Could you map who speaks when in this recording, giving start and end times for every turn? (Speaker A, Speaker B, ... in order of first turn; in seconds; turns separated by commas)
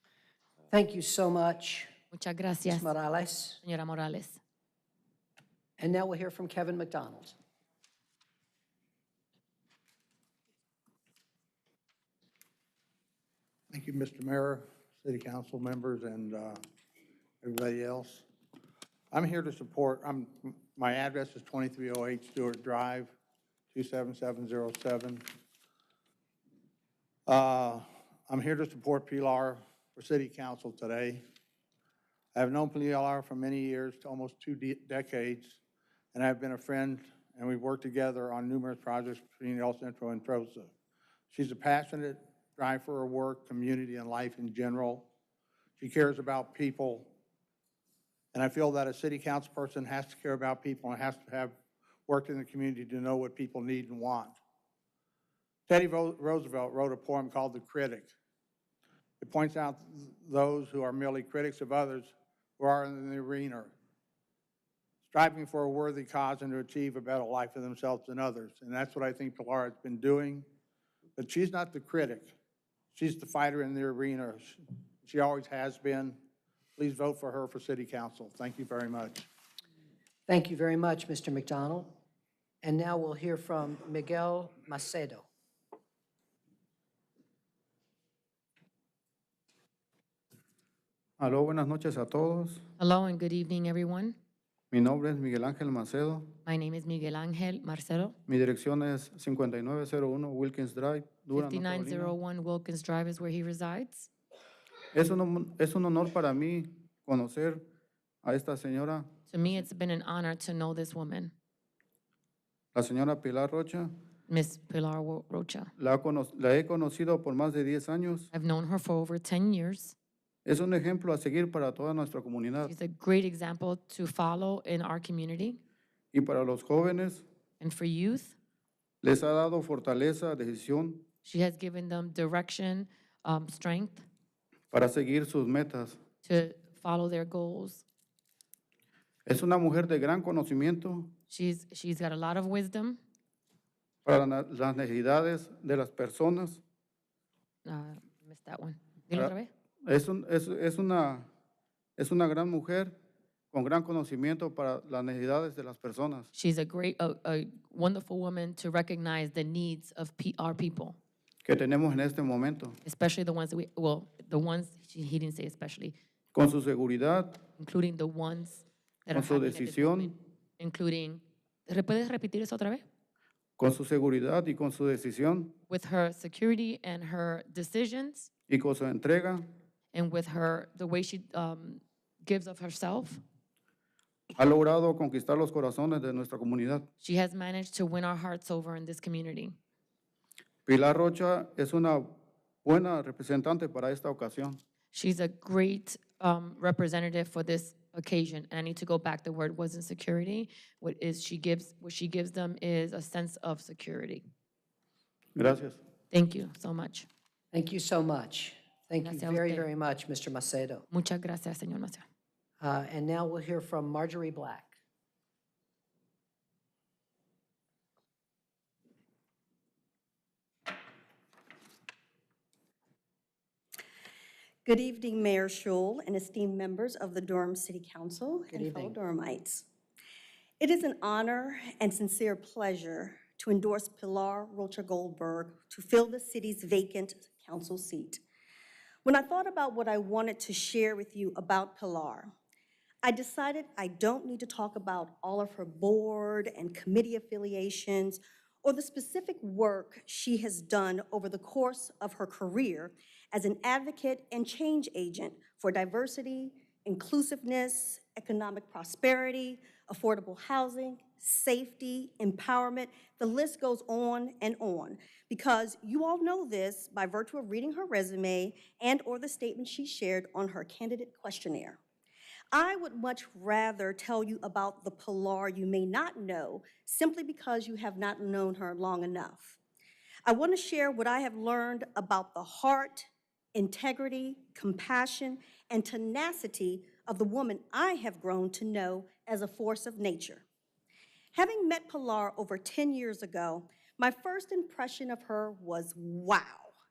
Speaker A: 0.7-1.9, Speaker B: 2.1-2.9, Speaker A: 2.6-3.6, Speaker B: 3.6-4.4, Speaker A: 5.8-7.3, Speaker C: 13.7-16.6, Speaker C: 17.4-18.2, Speaker C: 19.1-23.1, Speaker C: 23.7-25.2, Speaker C: 27.3-31.2, Speaker C: 32.3-35.6, Speaker C: 36.1-40.7, Speaker C: 41.3-45.1, Speaker C: 45.8-47.1, Speaker C: 48.3-51.5, Speaker C: 52.1-54.4, Speaker C: 55.7-58.1, Speaker C: 59.2-63.7, Speaker C: 65.0-70.5, Speaker C: 71.2-72.3, Speaker C: 72.9-76.2, Speaker C: 76.8-79.2, Speaker A: 80.3-82.0, Speaker A: 82.6-85.2, Speaker D: 91.2-92.7, Speaker B: 92.8-94.2, Speaker D: 94.7-96.3, Speaker B: 96.4-98.2, Speaker D: 98.3-102.1, Speaker B: 101.3-104.1, Speaker D: 104.9-107.6, Speaker D: 108.2-109.1, Speaker B: 109.3-111.3, Speaker D: 112.7-113.9, Speaker B: 114.3-115.7, Speaker D: 115.8-118.3, Speaker B: 118.3-120.0, Speaker D: 120.5-122.7, Speaker B: 122.6-125.6, Speaker D: 126.1-127.2, Speaker B: 127.6-128.3, Speaker D: 129.0-131.1, Speaker B: 131.2-134.1, Speaker D: 134.7-136.0, Speaker B: 136.2-137.8, Speaker D: 139.2-141.1, Speaker B: 141.3-143.0, Speaker D: 144.0-146.6, Speaker B: 147.6-149.5, Speaker D: 149.8-151.3, Speaker D: 152.0-152.9, Speaker D: 153.5-156.3, Speaker B: 156.3-161.0, Speaker D: 161.4-162.8, Speaker B: 162.8-165.9, Speaker D: 166.3-167.4, Speaker B: 167.6-172.8, Speaker D: 169.1-170.1, Speaker D: 173.6-175.5, Speaker B: 175.7-178.3, Speaker D: 178.5-179.4, Speaker B: 179.9-183.2, Speaker D: 184.4-186.9, Speaker B: 187.0-189.6, Speaker D: 190.7-194.6, Speaker B: 194.9-204.2, Speaker D: 205.3-205.8, Speaker B: 206.1-207.1, Speaker A: 207.5-210.8, Speaker B: 209.0-209.7, Speaker B: 210.9-212.0, Speaker A: 212.6-214.8, Speaker E: 224.6-229.7, Speaker A: 228.5-229.0, Speaker E: 230.6-238.2, Speaker E: 239.0-242.3, Speaker E: 243.0-271.8, Speaker E: 272.5-279.6, Speaker E: 280.2-290.4, Speaker E: 291.3-296.7